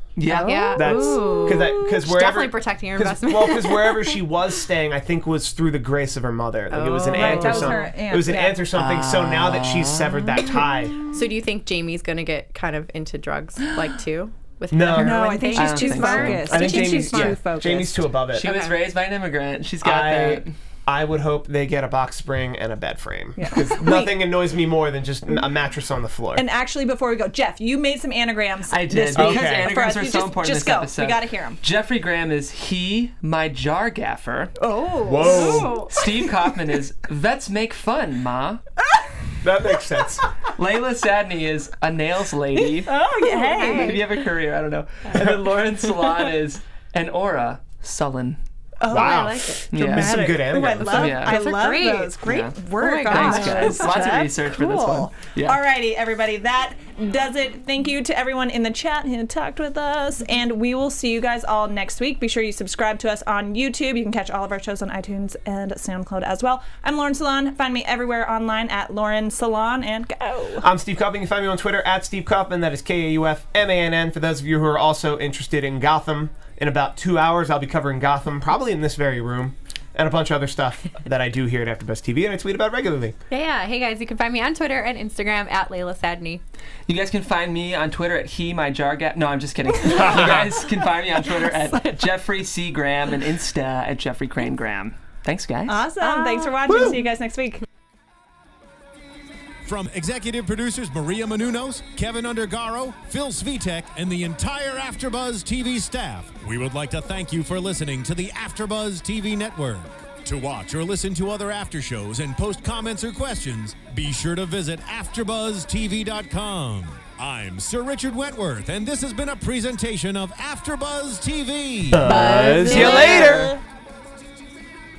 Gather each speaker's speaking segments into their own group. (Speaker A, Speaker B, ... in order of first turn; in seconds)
Speaker A: 0.1-0.8, 8.7-10.4, 15.5-17.3, 18.3-20.5, 28.7-34.5, 35.9-38.6, 40.5-43.0, 43.5-48.4, 49.7-51.4, 52.2-55.6, 86.9-95.9, 122.2-123.3
Speaker B: 0.3-2.0, 7.1-8.7, 14.9-18.1, 23.4-24.3, 26.3-31.6, 34.6-36.0, 42.7-44.0, 48.8-70.7, 95.7-97.6, 122.1-122.9
Speaker C: 0.5-4.2, 6.7-7.9, 11.1-17.2, 18.4-18.8, 35.2-36.0, 43.3-44.0, 48.9-49.6, 51.0-52.2, 52.7-54.0, 83.3-86.4, 96.0-96.5, 122.0-123.5
Speaker D: 0.7-11.0, 14.7-15.5, 16.0-18.5, 19.8-26.5, 29.1-29.8, 35.0-35.9, 39.4-40.2, 45.1-45.4, 48.9-51.2, 70.6-83.2, 90.0-90.5, 96.7-97.0, 121.9-123.5
Speaker E: 99.6-122.2